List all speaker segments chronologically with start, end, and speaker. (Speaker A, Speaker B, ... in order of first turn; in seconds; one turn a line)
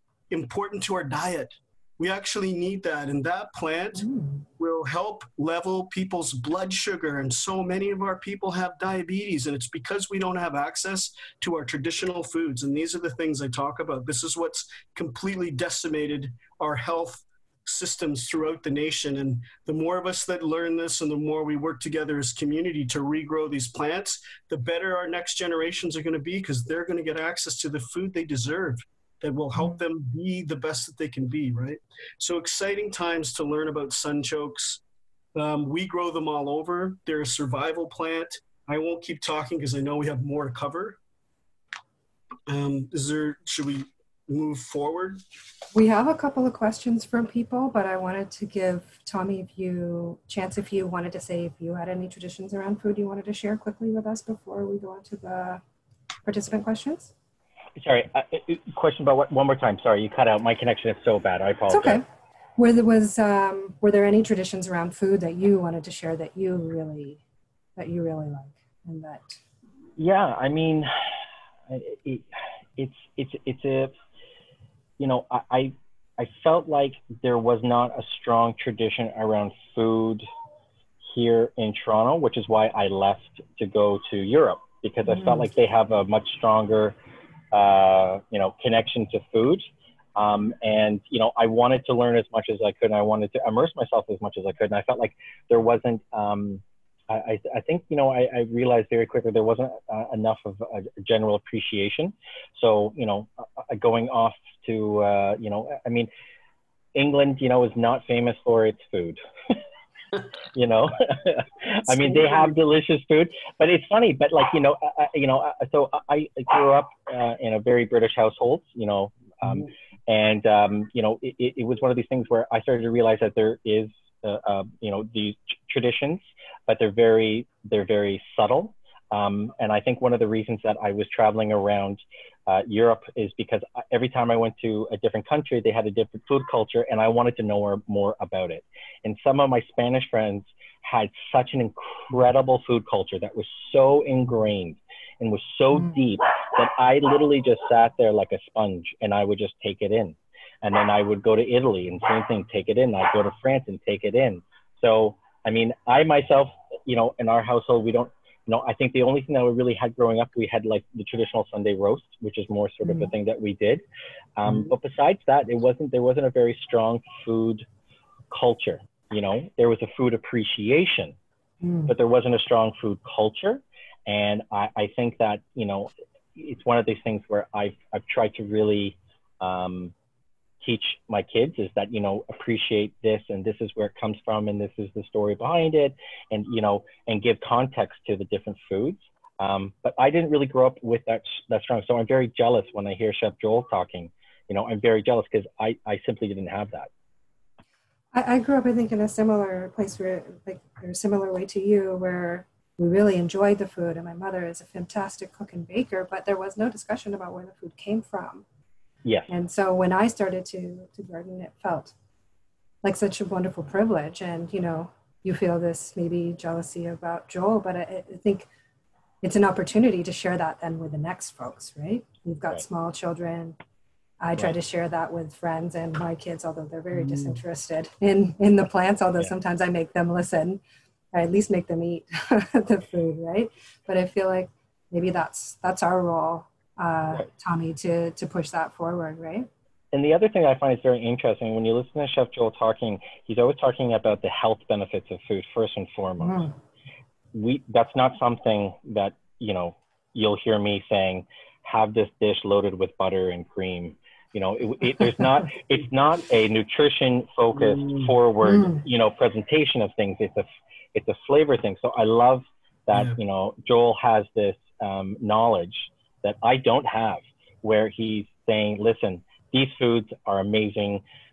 Speaker A: 0.3-4.1
Speaker B: 4.0-4.5
Speaker A: 4.6-34.8
Speaker A: 35.4-41.0
Speaker A: 42.5-45.2
Speaker B: 45.7-55.6
Speaker B: 56.3-57.1
Speaker C: 57.8-62.0
Speaker B: 61.7-62.0
Speaker B: 62.6-67.2
Speaker B: 67.8-69.4
Speaker C: 70.0-70.9
Speaker C: 71.7-73.9
Speaker C: 75.0-80.2
Speaker C: 81.0-87.0
Speaker C: 87.5-106.1
Speaker C: 107.0-109.6
Speaker C: 110.5-163.8
Speaker B: 162.8-163.1
Speaker C: 164.4-167.7
Speaker C: 168.3-171.2
Speaker B: 171.6-171.9
Speaker C: 171.9-179.9
Speaker C: 180.6-196.9
Speaker B: 198.1-208.4
Speaker C: 209.1-209.3
Speaker B: 209.3-211.9
Speaker B: 212.8-218.5
Speaker B: 219.2-223.6
Speaker B: 224.2-230.6
Speaker A: 227.0-227.4
Speaker B: 231.1-239.5
Speaker C: 239.9-246.5
Speaker B: 246.2-246.5
Speaker C: 247.3-271.0
Speaker A: 257.5-258.1
Speaker B: 258.5-258.8
Speaker A: 262.9-263.2